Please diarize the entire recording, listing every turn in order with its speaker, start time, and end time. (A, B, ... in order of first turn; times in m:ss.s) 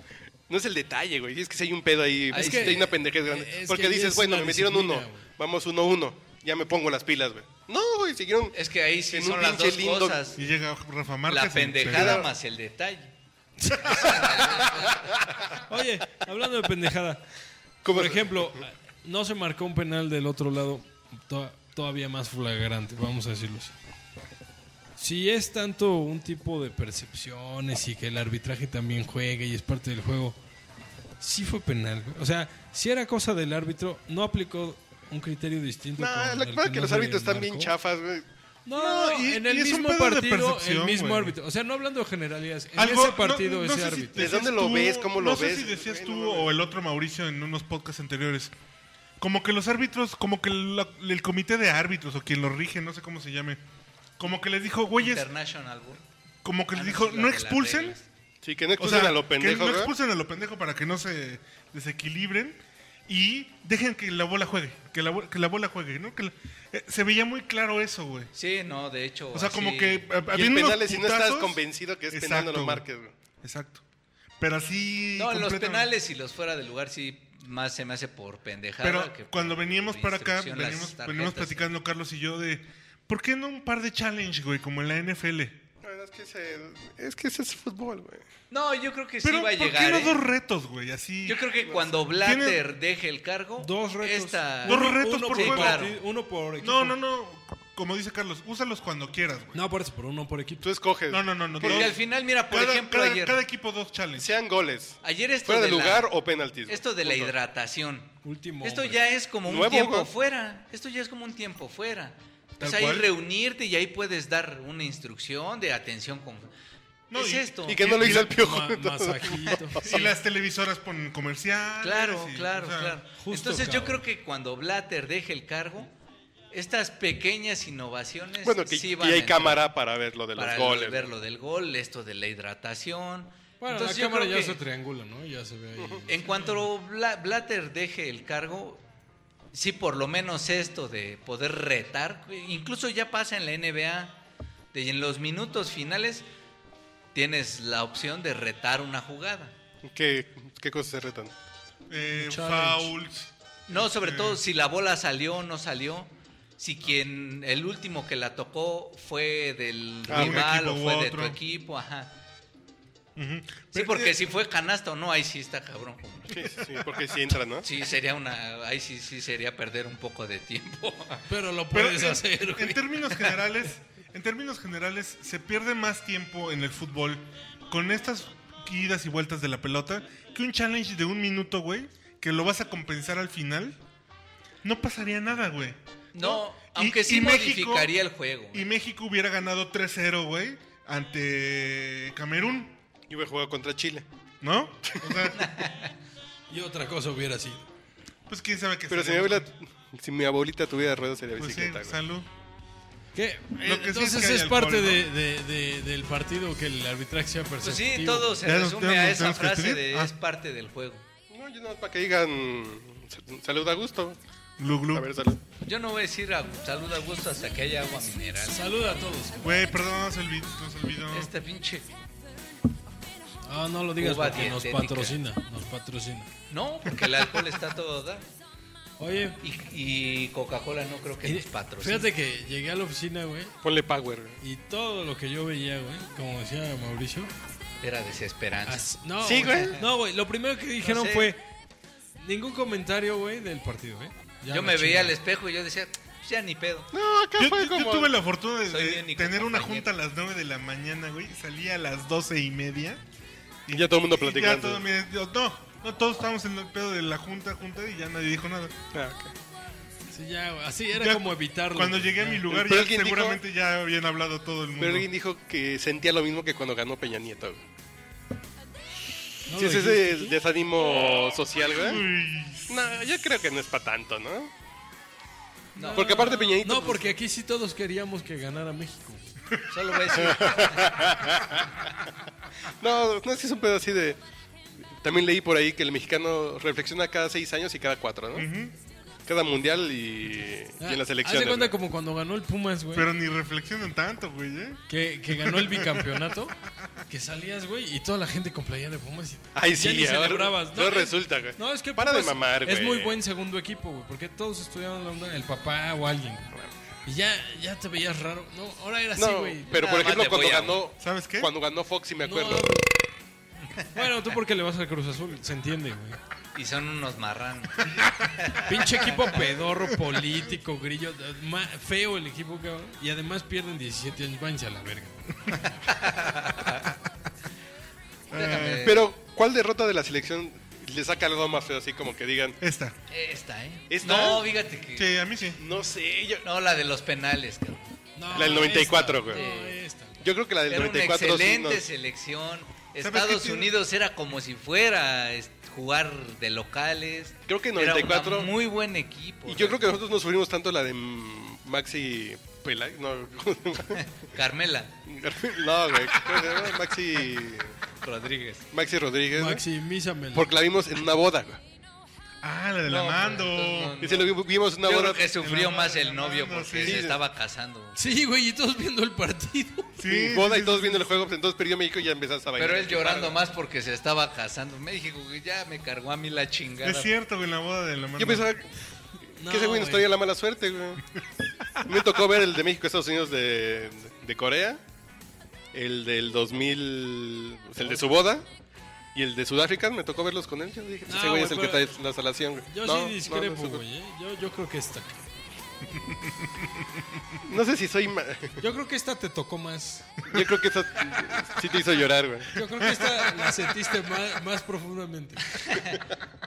0:00.5-0:08.6 A
0:02.3-0:02.9 B
0:02.3-0:05.3 C
0:08.5-0:10.4 B
0:09.1-0:10.4 A
0:10.4-0:12.2 D
0:11.3-0:13.1 B
0:11.8-0:12.3 A
0:13.6-0:14.4 C
0:13.7-0:15.2 B
0:15.6-0:17.2 C
0:17.8-0:18.6 A
0:17.9-0:23.8 C
0:25.0-0:30.4 C
0:31.2-0:37.7 C
0:36.0-0:38.3 A
0:38.7-0:44.3 C
0:38.7-0:41.4 D
0:42.8-0:48.5 D
0:44.1-0:46.5 A
0:49.2-0:53.6 D
0:54.2-0:55.3 D
0:55.0-0:56.0 B
0:56.4-0:58.0 D
0:56.7-0:58.1 B
0:58.4-0:59.9 A
0:58.8-1:08.3 D
1:08.3-1:10.1 B
1:09.3-1:12.8 D
1:10.3-1:13.1 A
1:13.4-1:13.8 D
1:14.4-1:15.9 D
1:15.2-1:21.7 B
1:18.8-1:25.6 D
1:25.8-1:28.2 A
1:28.5-1:30.2 B
1:29.2-1:31.5 D
1:31.3-1:36.0 B
1:32.1-1:32.6 D
1:33.6-1:37.0 C
1:34.7-1:35.9 D
1:36.6-1:39.6 D
1:39.5-1:40.7 C
1:40.6-1:41.9 A
1:41.1-1:44.3 D
1:41.6-1:43.4 B
1:44.2-1:47.3 A
1:45.0-1:46.1 B
1:46.7-1:56.5 B
1:48.2-1:49.0 C
1:49.5-1:50.1 A
1:52.6-1:53.1 D
1:57.1-1:58.4 D
1:57.1-1:57.9 B
1:57.7-2:00.1 A
1:58.1-1:59.8 C
1:59.8-2:03.0 D
1:59.8-2:00.1 B
2:01.8-2:05.9 B
2:03.2-2:04.0 C
2:06.5-2:09.7 B
2:08.4-2:11.1 A
2:10.4-2:14.6 B
2:13.6-2:16.7 C
2:15.8-2:16.1 A
2:16.1-2:18.8 B
2:19.5-2:24.2 B
2:24.7-2:26.2 B
2:27.1-2:29.5 B
2:29.8-2:31.3 A
2:31.9-2:34.4 D
2:32.2-2:32.9 C
2:33.7-2:42.1 B
2:40.1-2:40.5 A
2:40.1-2:41.4 D
2:43.2-2:44.2 D
2:43.7-2:46.4 B
2:46.3-2:47.7 A
2:47.6-2:51.3 B
2:51.3-2:53.3 C
2:51.7-3:03.8 D
3:04.6-3:07.9 D
3:06.1-3:08.7 B
3:08.5-3:12.8 D
3:13.1-3:14.1 A
3:14.4-3:15.5 D
3:15.3-3:16.0 B
3:16.5-3:17.7 C
3:18.3-3:19.5 D
3:18.9-3:22.0 A
3:21.4-3:22.3 D
3:23.2-3:28.3 C
3:23.6-3:25.1 D
3:27.6-3:31.0 B
3:28.4-3:30.1 D
3:31.3-3:34.2 A
3:34.6-3:35.1 D
3:34.9-3:35.4 A
3:35.6-3:38.6 B
3:38.5-3:39.5 C
3:39.4-3:41.3 D
3:41.1-3:41.9 B
3:43.5-3:46.3 C
3:44.0-3:45.2 B
3:46.5-3:48.2 B
3:49.0-3:49.4 C
3:49.4-3:52.1 B
3:51.2-3:53.6 C
3:53.6-3:54.4 A
3:54.4-3:57.3 C
3:57.8-3:59.8 B
3:58.7-4:01.4 C
3:59.2-3:59.9 A
4:00.8-4:01.3 B
4:02.2-4:05.2 C
4:04.5-4:06.9 B
4:06.9-4:08.2 A
4:07.4-4:13.0 D
4:08.7-4:09.9 B
4:13.7-4:18.7 D
4:13.7-4:14.8 A
4:18.9-4:19.3 A
4:20.1-4:22.5 C
4:20.9-4:25.1 D
4:22.5-4:23.4 A
4:24.8-4:27.6 A
4:29.5-4:30.4 C
4:29.5-4:32.0 A
4:31.8-4:32.8 D
4:32.7-4:34.5 A
4:35.8-4:36.5 B
4:35.8-4:39.2 C
4:35.9-4:37.2 A
4:39.7-4:41.1 B
4:40.1-4:41.8 A
4:42.8-4:44.2 A
4:44.8-4:48.5 A
4:48.4-4:48.7 D
4:49.3-4:51.8 A
4:50.8-4:53.1 C
4:52.9-4:56.2 D
4:54.9-5:06.5 C
4:59.6-5:03.2 A
5:07.0-5:09.9 C
5:09.2-5:12.7 A
5:09.7-5:10.8 B
5:11.0-5:11.5 D
5:12.2-5:12.9 C
5:13.9-5:16.2 C
5:16.6-5:19.4 B
5:18.6-5:25.7 C
5:25.8-5:26.9 B
5:28.3-5:28.9 D
5:28.3-5:29.1 B
5:28.8-5:32.6 A
5:32.6-5:33.0 D
5:33.1-5:35.1 B
5:33.9-5:34.5 A
5:35.0-5:35.6 D
5:35.6-5:36.4 A
5:36.4-5:38.5 B
5:38.2-5:40.2 C
5:38.3-5:39.4 A
5:39.3-5:39.8 B
5:40.2-5:41.9 A
5:40.7-5:50.0 B
5:43.0-5:43.7 D
5:47.5-5:48.5 A
5:49.5-5:54.0 A
5:53.9-5:55.0 B
5:55.0-5:57.8 A
5:58.0-5:58.7 B
5:58.7-5:59.6 A
5:59.3-6:00.5 C
6:00.3-6:01.6 A
6:02.4-6:04.0 D
6:02.9-6:08.0 B
6:04.0-6:05.3 A
6:05.4-6:07.2 D
6:06.8-6:07.2 A
6:08.0-6:10.0 C
6:10.0-6:11.1 D
6:10.1-6:13.4 A
6:12.6-6:17.1 B
6:16.8-6:18.5 D
6:18.2-6:18.7 A
6:19.4-6:21.0 A
6:19.4-6:20.1 C
6:21.8-6:24.8 A
6:25.7-6:28.5 A
6:29.1-6:33.8 A
6:31.1-6:32.0 C
6:32.7-6:35.3 C
6:37.4-6:38.7 A
6:38.6-6:40.3 C
6:40.3-6:42.5 A
6:42.6-6:45.8 C
6:42.8-6:43.5 D
6:45.6-6:46.0 B